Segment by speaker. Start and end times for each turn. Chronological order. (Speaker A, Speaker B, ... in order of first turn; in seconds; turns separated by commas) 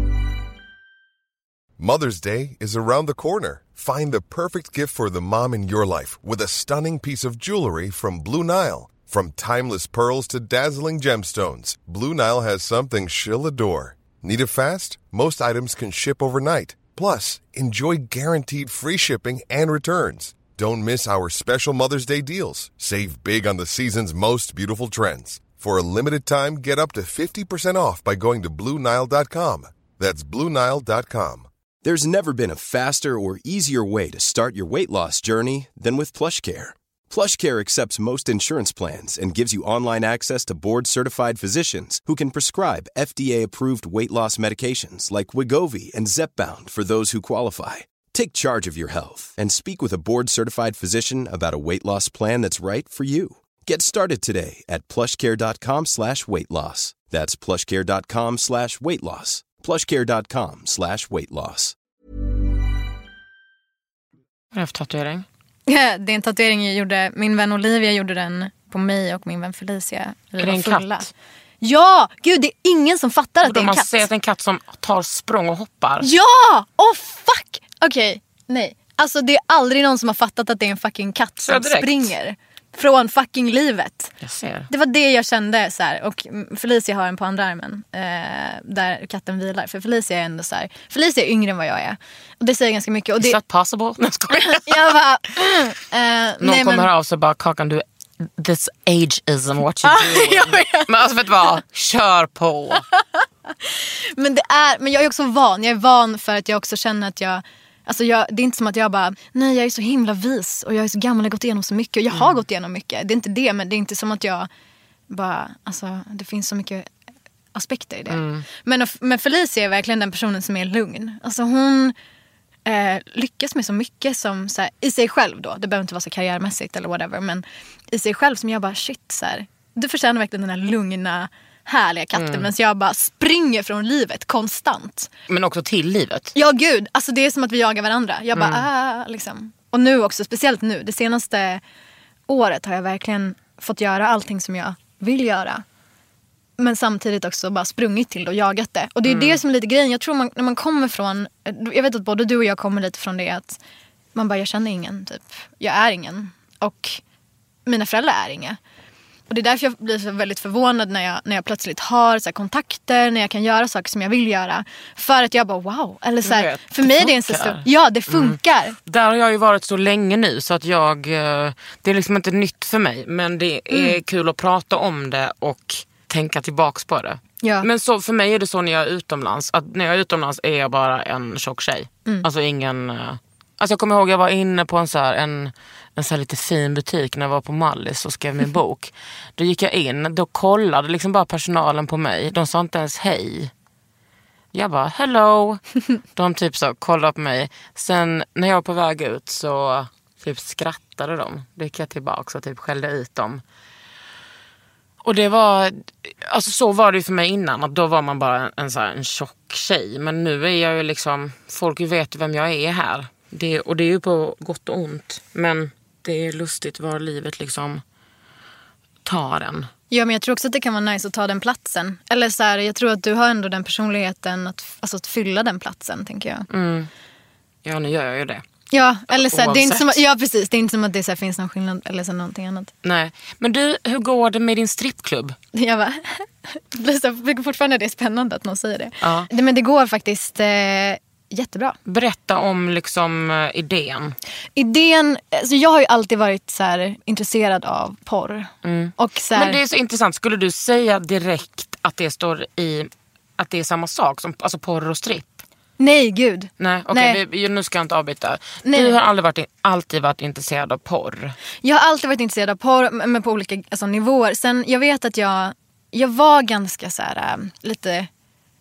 Speaker A: 1.8-31.5, Speaker B: 31.8-61.8, Speaker C: 64.5-65.2, Speaker D: 65.7-71.1, Speaker C: 70.4-71.1, Speaker D: 71.6-74.1, Speaker C: 73.4-76.1, Speaker D: 76.0-84.1, Speaker C: 81.4-82.1, Speaker C: 84.2-84.7, Speaker D: 84.7-93.4, Speaker C: 93.2-94.7, Speaker D: 94.3-96.9, Speaker C: 96.4-102.8, Speaker D: 99.8-100.9, Speaker D: 103.6-114.5, Speaker C: 112.1-112.4, Speaker D: 115.1-116.9, Speaker D: 117.5-121.9, Speaker C: 118.1-118.5, Speaker D: 122.7-135.1, Speaker C: 132.2-132.5, Speaker C: 135.3-136.3, Speaker D: 136.3-141.6, Speaker C: 138.3-138.7, Speaker D: 142.3-145.6, Speaker D: 146.6-153.6, Speaker C: 149.1-149.4, Speaker D: 154.2-157.0, Speaker D: 157.7-158.6, Speaker D: 159.3-168.8, Speaker C: 166.2-193.5, Speaker D: 173.7-174.0, Speaker C: 194.5-203.4, Speaker C: 205.0-217.8, Speaker C: 219.1-219.7, Speaker D: 219.9-226.5, Speaker C: 226.5-226.9, Speaker C: 227.7-228.4, Speaker D: 228.7-232.7, Speaker C: 229.1-230.0, Speaker C: 232.8-235.4, Speaker D: 235.5-241.8, Speaker C: 239.0-239.3, Speaker C: 241.9-244.2, Speaker D: 244.6-249.6, Speaker C: 248.6-255.4, Speaker D: 255.8-257.2, Speaker C: 256.6-261.4, Speaker D: 258.6-259.0, Speaker D: 261.6-268.1